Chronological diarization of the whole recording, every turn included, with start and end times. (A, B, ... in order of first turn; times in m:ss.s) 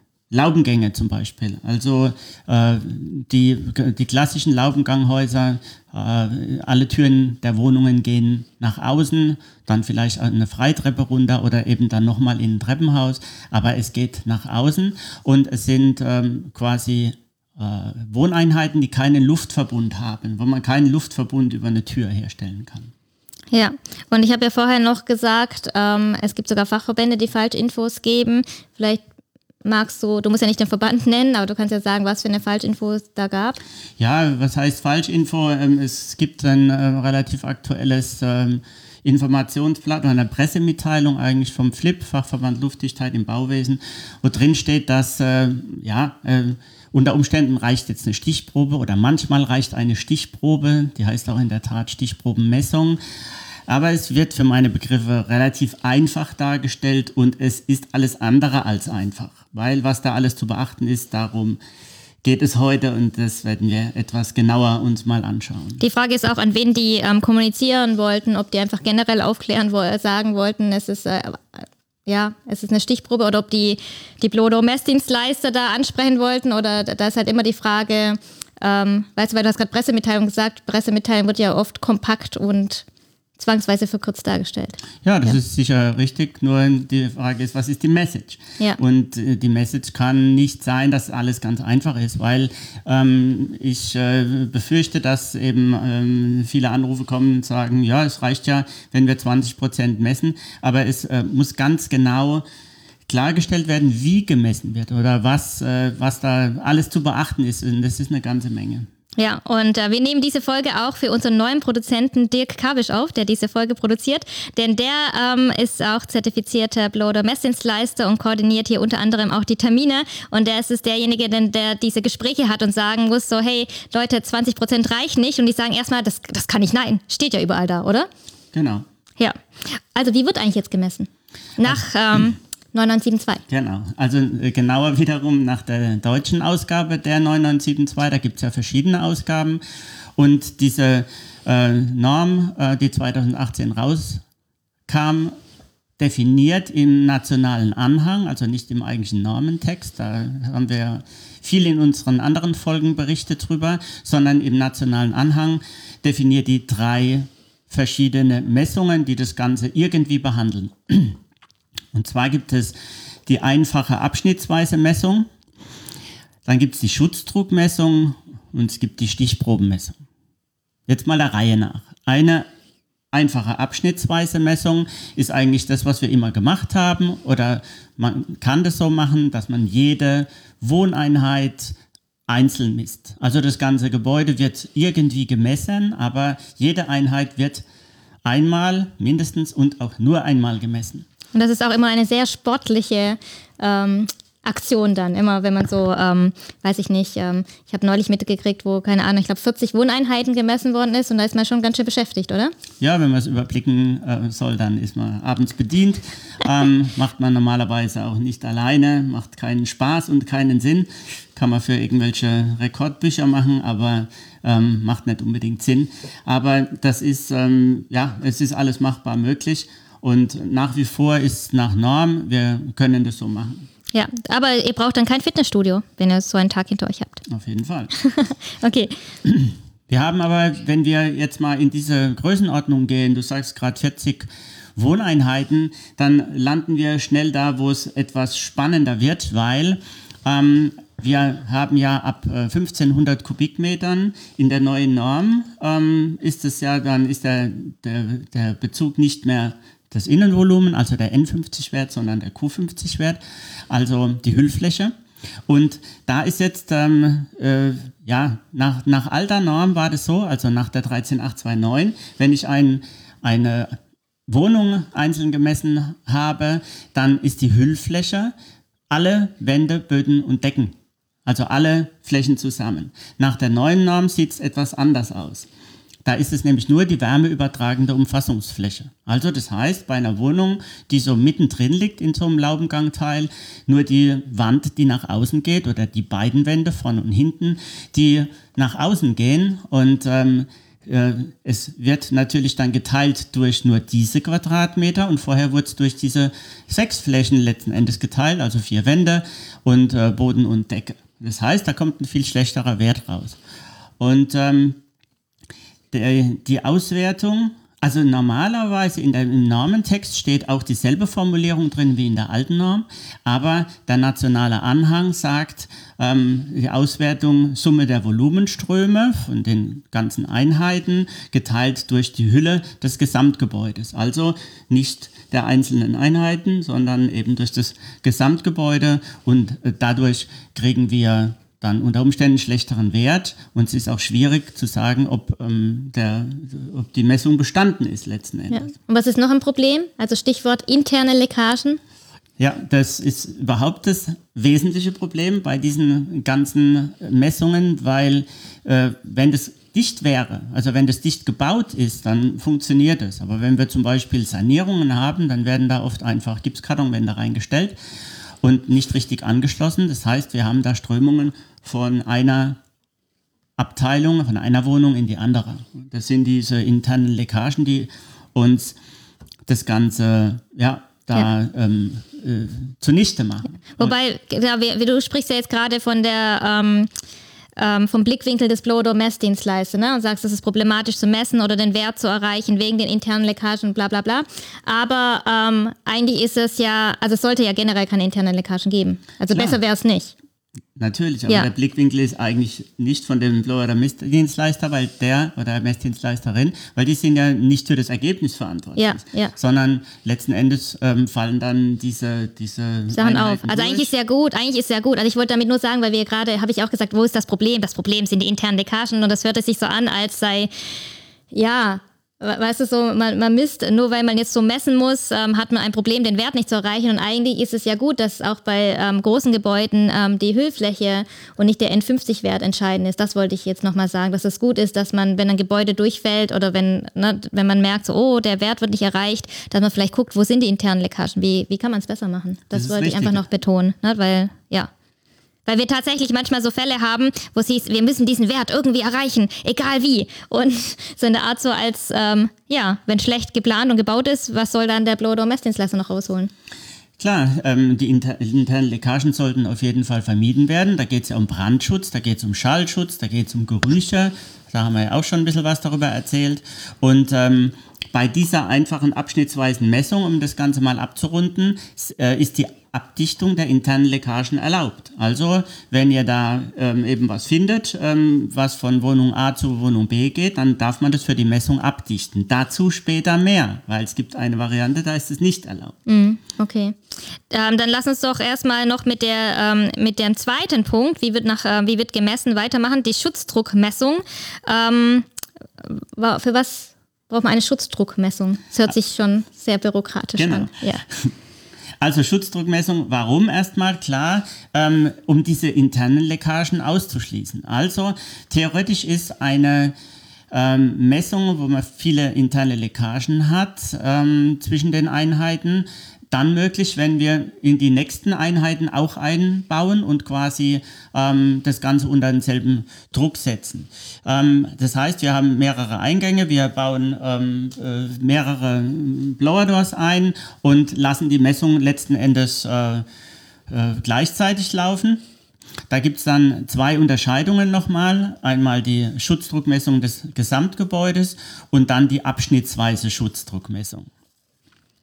0:00.3-0:22.9 A
0:23.5-0:29.0 B
0:29.6-0:33.6 B
0:34.0-0:53.0 A
0:53.7-1:01.6 A
1:02.2-1:05.8 A
1:05.8-1:22.8 B
1:23.4-1:25.4 B
1:25.0-1:42.4 A
1:43.1-1:48.9 A
1:49.2-2:08.1 B
2:08.5-2:08.8 A
2:09.2-2:13.4 B
2:13.5-2:19.6 A
2:20.2-2:24.2 A
2:24.9-2:25.4 A
2:26.0-2:41.2 A
2:41.9-2:45.3 A
2:46.4-2:50.0 A
2:50.9-2:52.5 A
2:53.1-3:01.8 A
3:02.3-3:07.6 A
3:08.2-3:11.0 A
3:11.3-3:22.5 B
3:22.8-3:43.7 A
3:43.9-3:47.2 B
3:47.2-3:47.9 A
3:48.0-3:48.9 B
3:49.2-4:13.2 A
4:13.7-4:14.9 A
4:15.5-4:23.8 A
4:24.3-4:28.3 A
4:28.9-4:35.5 A
4:36.0-5:03.4 A
5:04.0-5:04.8 A
5:05.9-5:38.7 A
5:38.5-5:41.8 B
5:42.4-5:57.8 A
5:58.4-6:02.6 A
6:03.6-6:08.8 A
6:09.5-6:13.9 A
6:13.8-6:16.9 B
6:17.6-6:30.1 B
6:29.3-6:29.6 A
6:30.8-6:43.9 A
6:38.8-6:39.3 B
6:42.9-6:50.5 B
6:51.3-7:14.7 B
7:12.5-7:13.2 A
7:15.4-7:26.3 B
7:27.0-7:55.8 A
7:55.9-7:56.8 B
7:57.3-8:05.1 B
8:05.6-8:10.8 B
8:10.2-8:11.1 A
8:11.8-8:19.7 A
8:20.3-8:42.8 A
8:43.5-8:45.0 A
8:45.7-8:53.9 A